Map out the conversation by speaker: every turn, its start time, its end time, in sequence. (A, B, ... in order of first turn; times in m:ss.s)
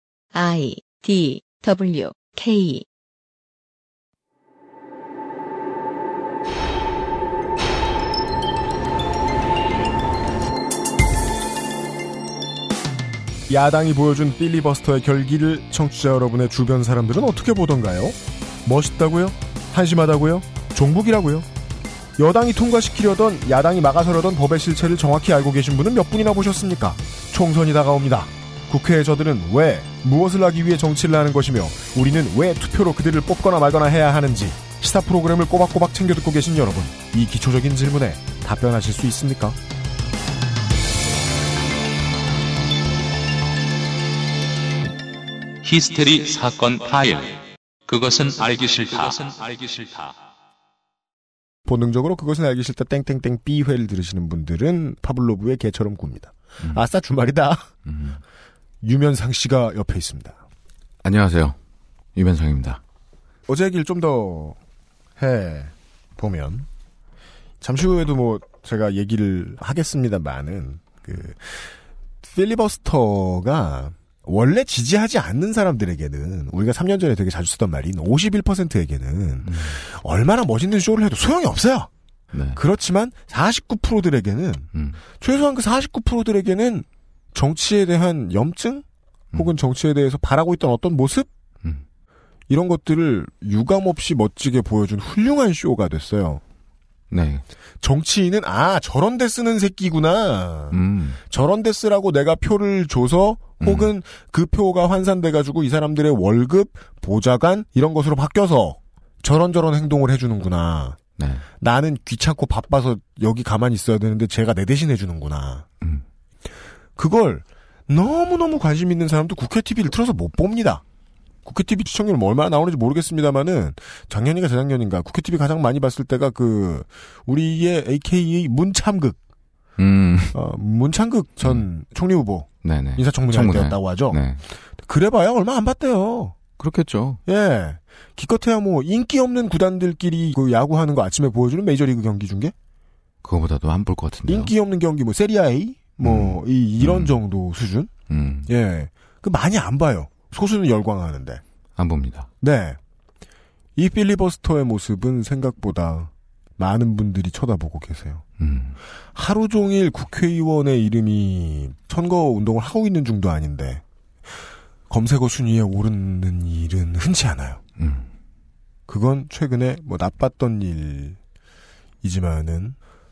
0:00.3-0:02.9 A
0:13.5-0:21.5 B
0:22.2-0:39.6 B
0:45.6-0:50.1 C
0:51.7-0:57.7 B
0:57.9-0:58.2 D
0:58.8-1:00.4 B
1:01.0-1:01.6 D
1:02.2-1:02.8 D
1:03.5-1:04.6 B
1:05.2-1:06.7 B
1:07.6-1:21.9 B
1:19.4-1:19.7 D
1:22.3-1:22.6 D
1:22.5-1:31.3 B
1:32.5-1:36.4 B
1:37.1-1:37.4 D
1:37.8-1:51.0 B
1:40.7-1:41.2 D
1:43.6-1:43.9 D
1:51.2-1:51.4 D
1:51.6-1:55.7 B
1:57.0-2:00.8 B
2:01.4-2:09.2 B
2:09.8-2:10.4 D
2:10.3-2:14.2 B
2:12.6-2:14.4 D
2:14.8-2:16.4 B
2:16.6-2:17.2 D
2:17.3-2:22.5 B
2:23.2-2:24.5 D
2:24.3-2:27.9 B
2:26.0-2:27.1 D
2:28.1-2:28.5 D
2:28.5-2:31.4 B
2:31.8-2:32.3 D
2:32.4-2:32.8 B
2:33.8-2:38.2 B
2:38.4-2:38.8 D
2:39.2-2:43.8 B
2:44.9-2:47.6 B
2:47.8-2:48.0 D
2:48.9-2:51.2 B
2:52.0-2:52.8 B